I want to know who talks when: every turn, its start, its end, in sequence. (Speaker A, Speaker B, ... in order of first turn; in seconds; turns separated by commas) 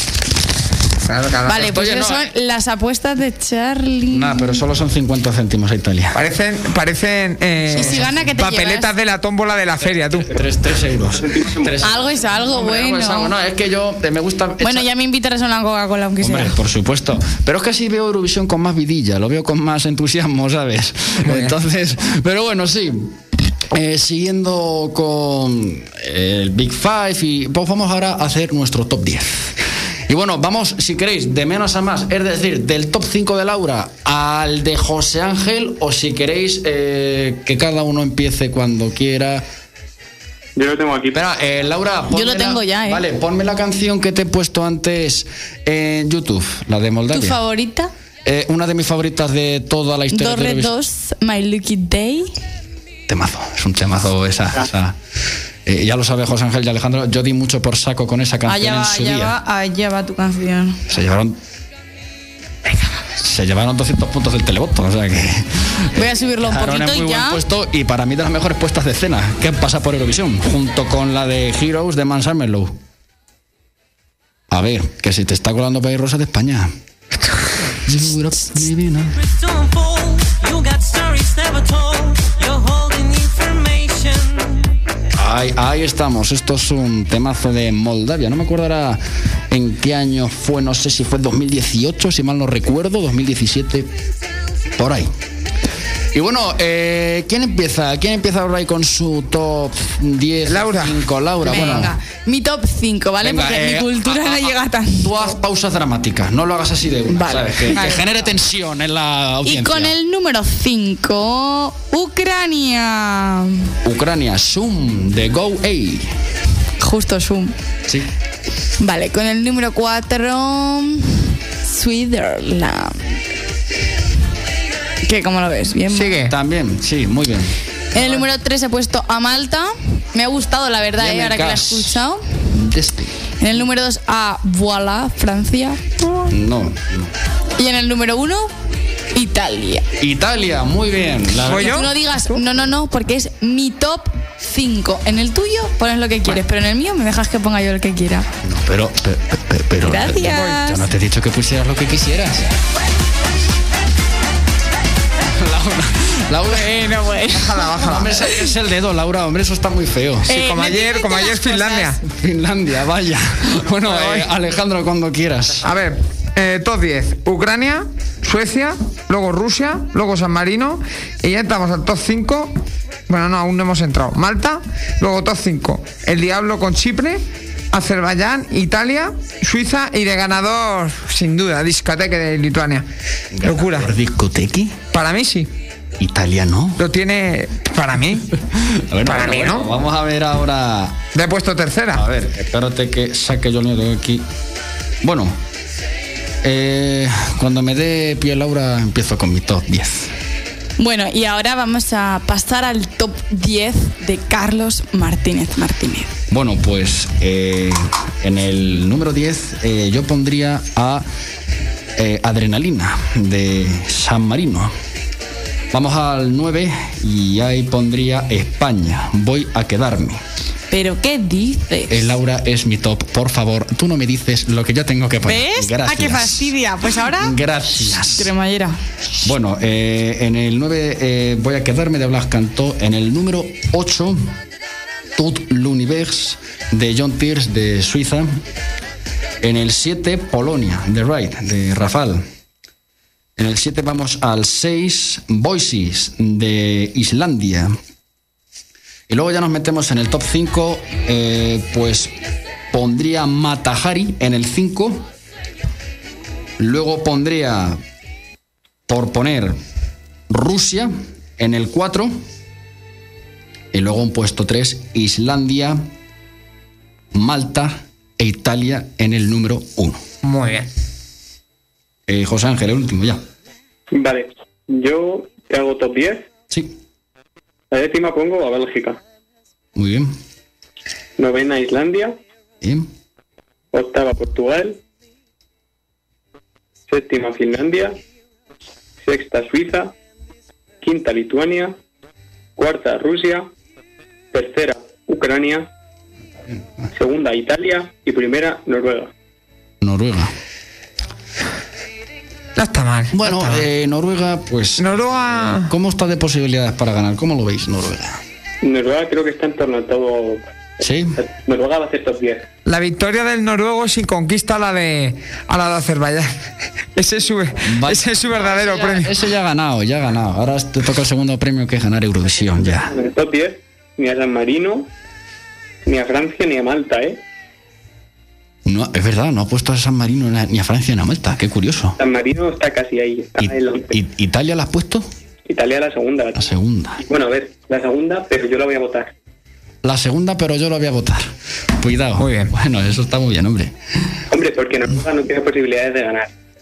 Speaker A: 1.0-1.7, Speaker B: 1.4-4.6, Speaker C: 1.5-2.3, Speaker C: 4.1-6.2, Speaker A: 6.1-10.3, Speaker C: 7.7-8.1, Speaker B: 7.7-8.9, Speaker C: 10.2-14.9, Speaker D: 11.2-11.7, Speaker B: 11.8-13.3, Speaker B: 14.6-16.6, Speaker C: 16.2-23.2, Speaker A: 21.2-21.5, Speaker C: 23.7-39.4, Speaker D: 40.5-41.2, Speaker C: 41.1-47.4, Speaker B: 42.1-43.0, Speaker B: 47.1-47.9, Speaker C: 48.2-50.7, Speaker B: 50.1-52.3, Speaker C: 53.1-55.0, Speaker C: 55.6-59.3, Speaker B: 58.5-60.8, Speaker C: 60.9-61.4, Speaker C: 63.2-72.8, Speaker B: 66.0-67.4, Speaker C: 74.5-76.7, Speaker C: 77.8-79.2, Speaker E: 79.3-84.5, Speaker C: 85.1-93.9, Speaker C: 94.7-95.1, Speaker C: 96.1-102.0, Speaker A: 100.5-101.0, Speaker B: 101.4-105.3, Speaker C: 103.2-110.0, Speaker B: 107.1-108.1, Speaker B: 109.4-113.7, Speaker C: 113.8-116.1, Speaker B: 116.8-117.5, Speaker B: 118.8-123.1, Speaker B: 125.0-126.2, Speaker A: 125.9-126.3, Speaker C: 126.2-128.2, Speaker B: 127.9-132.2, Speaker C: 131.0-132.0, Speaker C: 132.5-133.2, Speaker B: 133.4-135.8, Speaker A: 136.0-136.3, Speaker C: 136.3-137.1, Speaker B: 137.6-138.5, Speaker B: 139.1-139.9, Speaker C: 140.0-141.9, Speaker A: 141.4-142.4, Speaker B: 141.5-148.3, Speaker C: 148.4-152.6, Speaker B: 149.8-150.8, Speaker A: 150.2-150.6, Speaker C: 155.2-156.8, Speaker B: 156.4-158.3, Speaker A: 157.3-158.2, Speaker C: 157.7-160.3, Speaker B: 160.2-161.9, Speaker A: 160.3-162.0, Speaker C: 162.0-165.7, Speaker A: 163.6-164.3, Speaker A: 165.6-172.5, Speaker A: 173.1-182.9, Speaker C: 183.3-184.8, Speaker A: 183.4-183.9, Speaker A: 184.9-185.5, Speaker C: 186.0-186.8, Speaker A: 186.8-188.3, Speaker C: 188.5-191.0, Speaker A: 189.0-189.7, Speaker A: 191.1-192.0, Speaker C: 191.9-194.2, Speaker C: 195.0-195.4, Speaker C: 196.4-200.1, Speaker B: 200.8-206.1, Speaker C: 206.3-211.0, Speaker C: 211.9-214.7, Speaker C: 215.7-220.2, Speaker B: 220.7-222.1, Speaker C: 221.9-226.5, Speaker B: 225.2-227.4, Speaker C: 227.1-228.3, Speaker B: 228.0-228.8, Speaker C: 229.2-234.2, Speaker C: 235.2-238.3, Speaker C: 239.4-242.2, Speaker C: 243.4-247.7, Speaker C: 249.1-252.1, Speaker C: 252.7-255.1, Speaker C: 256.6-257.8, Speaker C: 258.9-259.6, Speaker C: 260.3-262.2, Speaker C: 263.7-265.9, Speaker C: 267.1-270.0, Speaker A: 270.2-270.7, Speaker C: 272.1-273.2, Speaker D: 273.9-276.3, Speaker C: 276.5-276.8, Speaker D: 277.7-279.0, Speaker C: 279.7-280.1, Speaker D: 281.2-282.2, Speaker C: 282.6-282.9, Speaker D: 283.7-284.8, Speaker D: 286.9-288.0, Speaker D: 289.0-289.9, Speaker D: 290.8-291.8, Speaker D: 292.6-293.5, Speaker D: 294.3-295.7, Speaker D: 296.9-299.1, Speaker C: 299.8-300.3, Speaker A: 302.6-303.6, Speaker C: 303.1-308.2, Speaker A: 304.8-305.7, Speaker D: 308.6-310.4, Speaker C: 310.8-311.2, Speaker D: 311.2-312.5, Speaker A: 312.6-316.3, Speaker A: 316.9-319.1, Speaker C: 317.6-322.9, Speaker D: 322.6-324.9, Speaker D: 325.8-327.2, Speaker C: 328.6-332.0, Speaker D: 332.0-334.0, Speaker C: 333.4-335.1, Speaker D: 335.5-336.4, Speaker C: 336.3-337.0, Speaker D: 337.0-339.1, Speaker C: 339.8-343.7, Speaker A: 342.2-342.5, Speaker D: 344.3-346.3